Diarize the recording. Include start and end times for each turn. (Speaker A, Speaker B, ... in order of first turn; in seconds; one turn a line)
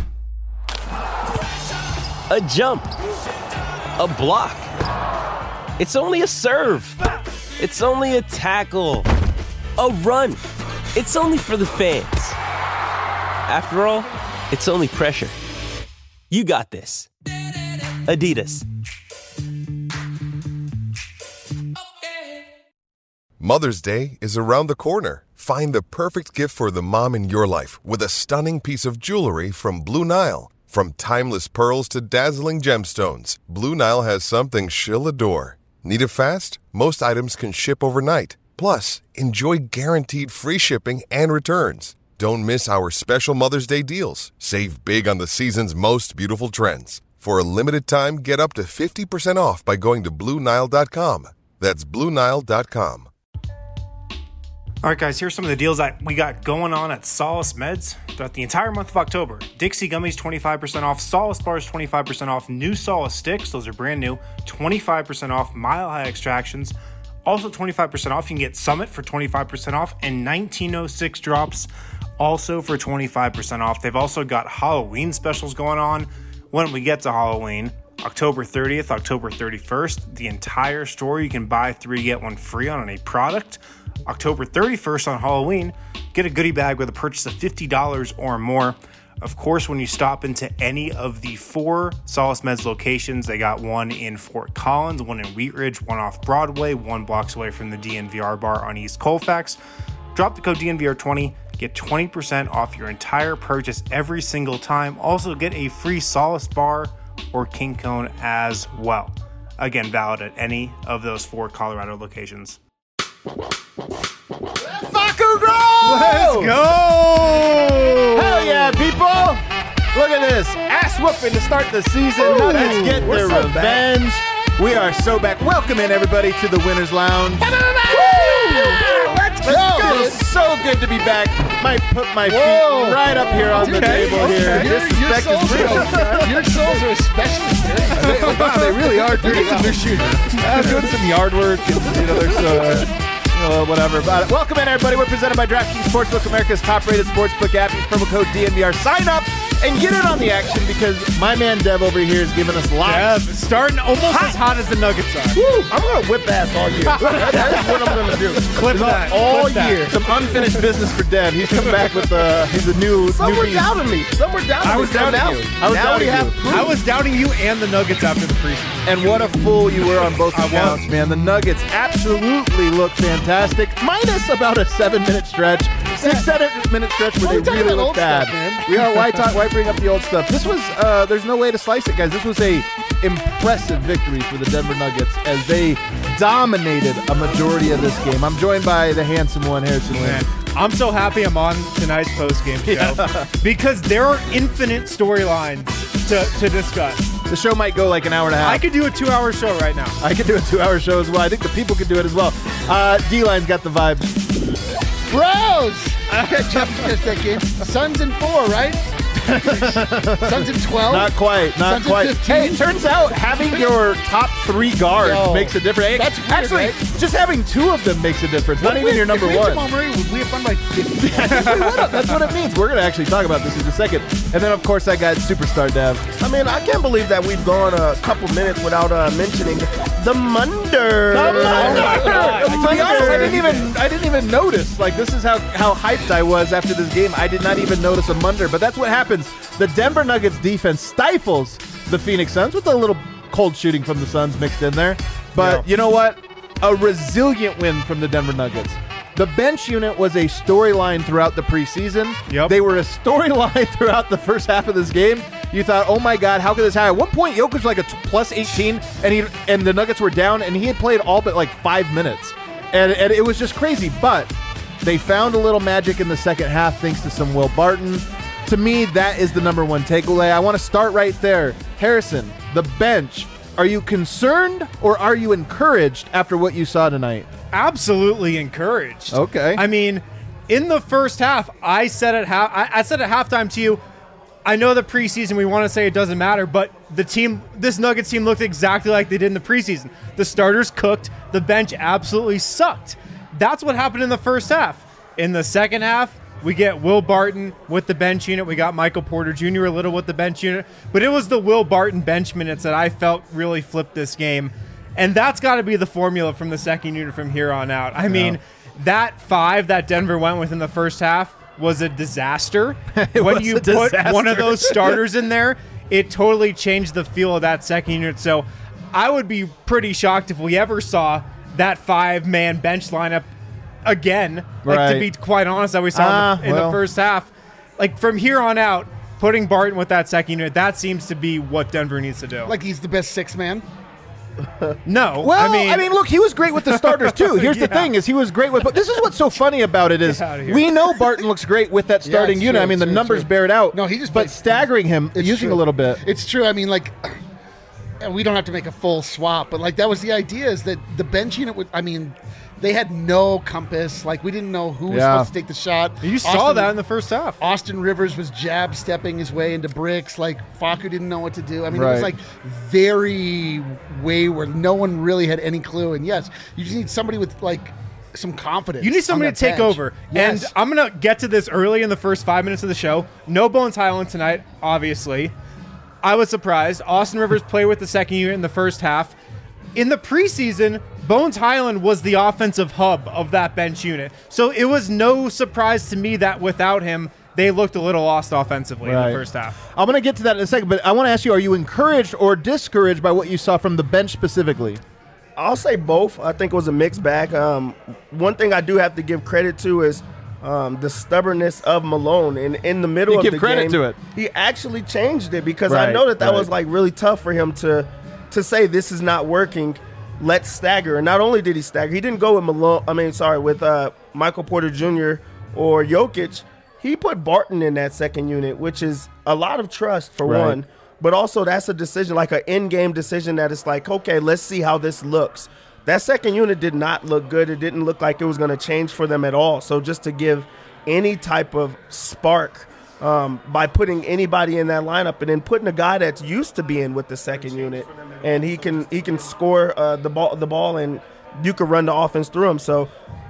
Speaker A: 2.3-2.9
Speaker A: 4.0-4.7
Speaker A: 5.8-7.0
Speaker A: 7.6-9.1
Speaker A: 9.8-10.4
Speaker A: 10.9-12.4
Speaker A: 13.5-15.3
Speaker A: 16.3-17.1
Speaker A: 17.9-18.6
Speaker B: 23.4-53.1
Speaker C: 54.8-99.6
Speaker C: 100.1-112.6
Speaker D: 114.6-116.6
Speaker E: 115.8-118.7
Speaker D: 118.1-136.8
Speaker F: 122.2-123.8
Speaker G: 127.7-130.2
Speaker G: 132.2-140.7
Speaker E: 133.5-134.8
Speaker E: 135.5-136.2
Speaker D: 137.9-153.2
Speaker E: 138.1-138.7
Speaker E: 140.5-140.8
Speaker E: 152.8-155.4
Speaker D: 154.0-154.4
Speaker D: 155.3-155.6
Speaker F: 155.3-158.6
Speaker D: 156.9-163.7
Speaker E: 157.0-157.3
Speaker E: 158.5-160.5
Speaker F: 163.1-166.8
Speaker D: 164.6-166.4
Speaker E: 166.5-169.0
Speaker D: 168.8-190.2
Speaker E: 170.3-170.8
Speaker G: 177.2-178.8
Speaker E: 190.0-197.1
Speaker D: 192.6-193.3
Speaker D: 197.3-198.6
Speaker E: 198.4-200.0
Speaker D: 200.0-204.3
Speaker G: 205.1-212.7
Speaker D: 209.2-219.6
Speaker G: 215.0-216.8
Speaker G: 218.6-221.8
Speaker D: 221.0-226.1
Speaker F: 226.2-233.5
Speaker D: 231.1-277.3
Speaker E: 231.4-233.6
Speaker E: 245.4-245.7
Speaker E: 252.3-252.6
Speaker E: 277.5-283.8
Speaker D: 279.1-279.6
Speaker E: 284.4-323.3
Speaker D: 308.1-308.4
Speaker D: 312.9-315.0
Speaker E: 323.8-332.5
Speaker D: 324.6-325.1
Speaker D: 325.9-326.8
Speaker G: 332.4-333.6
Speaker E: 334.8-335.9
Speaker D: 335.2-346.0
Speaker E: 336.6-337.9
Speaker E: 340.0-340.7
Speaker G: 342.0-347.2
Speaker G: 348.0-356.7
Speaker D: 354.9-355.3
Speaker E: 356.0-357.4
Speaker G: 357.4-370.5
Speaker D: 361.7-362.1
Speaker E: 368.8-375.3
Speaker E: 376.0-379.1
Speaker E: 379.7-389.6
Speaker D: 388.8-389.2
Speaker D: 389.7-394.8
Speaker F: 395.4-442.9
Speaker D: 403.1-404.0
Speaker D: 405.7-406.5
Speaker D: 420.2-420.6